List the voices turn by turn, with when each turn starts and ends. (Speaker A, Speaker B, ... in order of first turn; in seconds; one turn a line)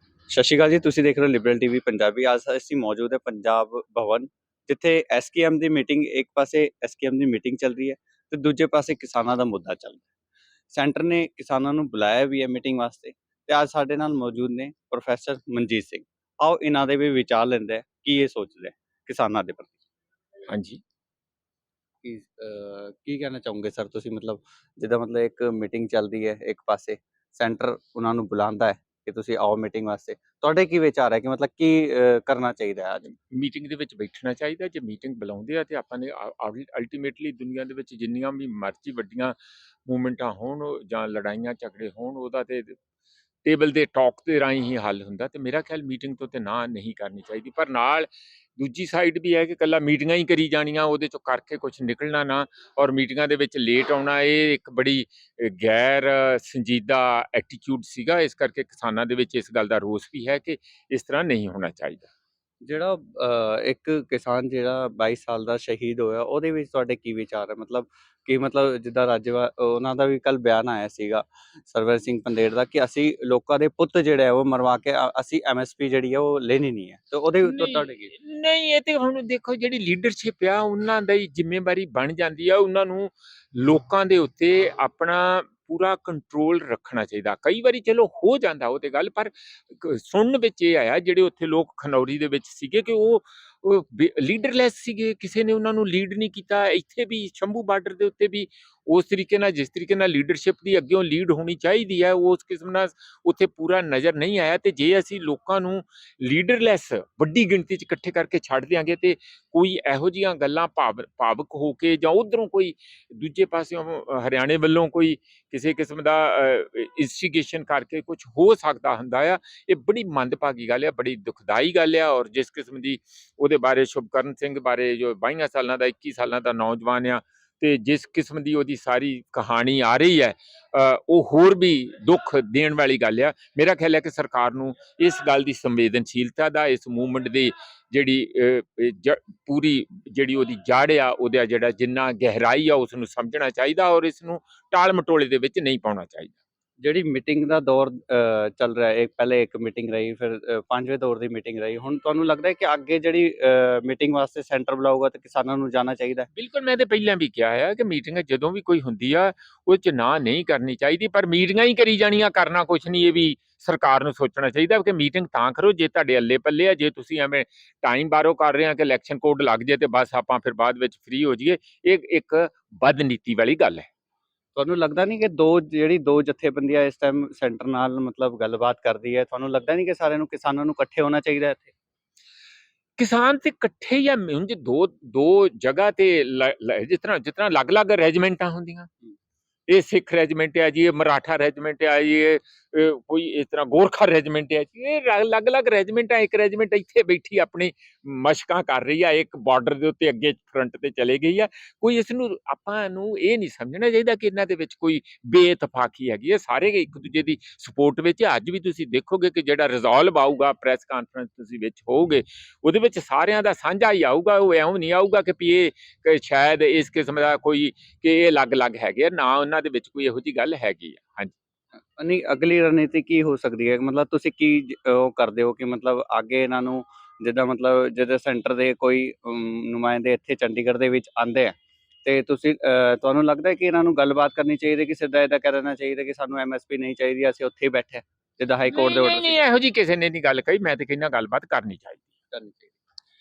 Speaker A: 0.3-10.1
Speaker A: 10.7-19.8
Speaker B: 20.5-20.8
Speaker A: 22.0-33.1
Speaker B: 33.3-42.8
Speaker B: 43.5-62.1
Speaker A: 62.6-78.1
Speaker B: 77.4-146.4
Speaker A: 146.8-156.3
Speaker B: 156.3-173.9
Speaker A: 174.6-181.7
Speaker B: 183.0-188.9
Speaker B: 189.7-221.3
Speaker A: 222.0-239.4
Speaker B: 238.7-242.1
Speaker A: 242.3-242.8